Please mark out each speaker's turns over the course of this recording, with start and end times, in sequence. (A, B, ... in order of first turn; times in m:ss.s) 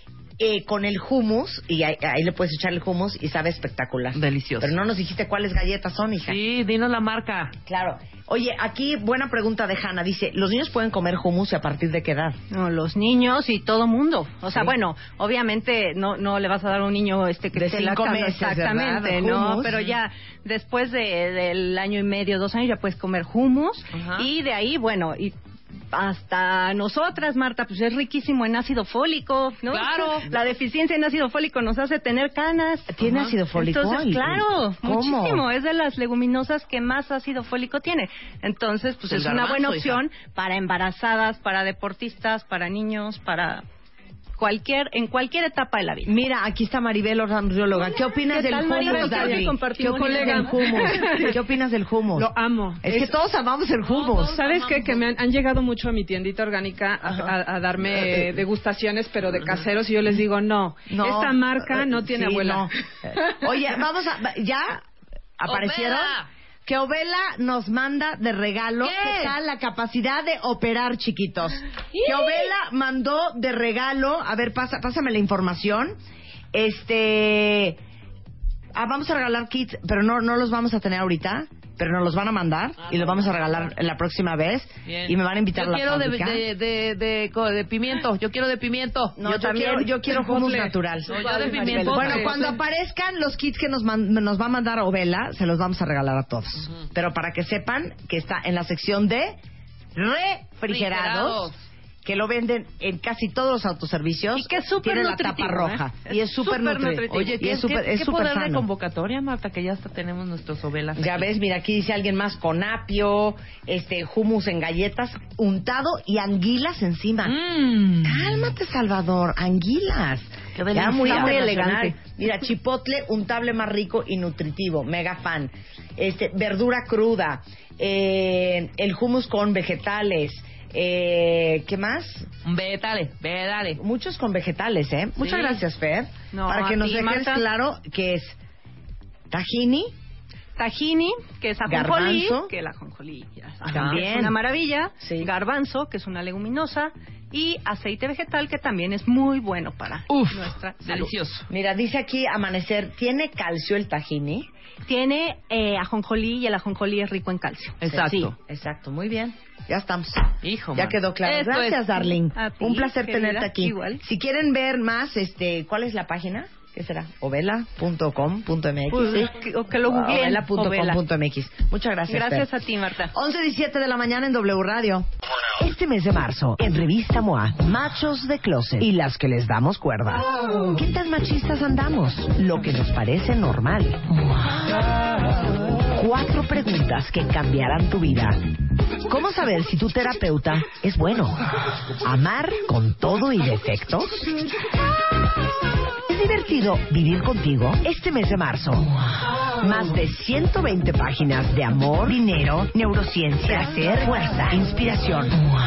0:00.4-0:06.4 A
0:04.1-0:04.8 B
0:06.2-0:07.5 B
0:07.7-0:12.4 A
0:12.5-0:25.4 C
0:14.5-0:14.7 A
0:17.5-0:19.7 A
0:19.7-0:20.0 B
0:23.9-0:24.3 B
0:25.9-0:43.6 C
0:29.7-0:30.3 B
0:32.9-0:35.4 A
0:39.0-0:40.0 B
0:44.4-0:46.1 C
0:46.0-0:52.3 A
0:48.3-0:51.3 C
0:48.8-0:51.3 D
0:52.1-0:53.1 D
0:52.8-0:54.4 A
0:53.9-0:55.1 B
0:54.2-1:02.7 D
0:57.1-0:57.3 A
0:59.4-0:59.7 B
1:00.9-1:04.8 A
1:05.4-1:16.0 A
1:05.5-1:06.3 B
1:08.8-1:09.4 B
1:11.9-1:12.5 B
1:16.5-1:17.8 A
1:18.8-1:26.5 A
1:22.8-1:23.6 B
1:24.8-1:29.8 B
1:29.2-1:39.4 A
1:30.0-1:30.7 D
1:31.0-1:32.5 B
1:31.2-1:32.2 C
1:31.2-1:32.4 D
1:40.0-1:41.5 A
1:40.7-1:41.6 B
1:42.0-1:48.7 A
1:44.4-1:47.4 C
1:47.1-1:51.3 B
1:51.0-1:57.4 A
1:57.2-1:58.5 B
1:58.0-2:12.3 A
2:00.6-2:01.6 B
2:01.0-2:02.0 C
2:12.4-2:13.8 B
2:13.8-2:18.4 A
2:15.2-2:15.6 B
2:16.3-2:17.4 C
2:19.3-2:19.9 A
2:20.6-2:31.1 C
2:21.7-2:22.5 A
2:23.7-2:24.0 B
2:23.7-2:24.4 A
2:30.1-2:31.5 B
2:31.5-2:34.5 A
2:34.9-2:38.3 C
2:37.8-2:38.3 B
2:37.9-2:52.5 A
2:40.4-2:41.8 B
2:42.0-2:44.0 C
2:48.9-2:51.0 C
2:52.1-2:53.1 C
2:53.1-2:55.1 A
2:55.6-3:04.0 A
3:05.9-3:08.4 A
3:09.1-3:11.4 A
3:12.0-3:14.3 A
3:16.1-3:18.9 A
3:19.6-3:25.4 A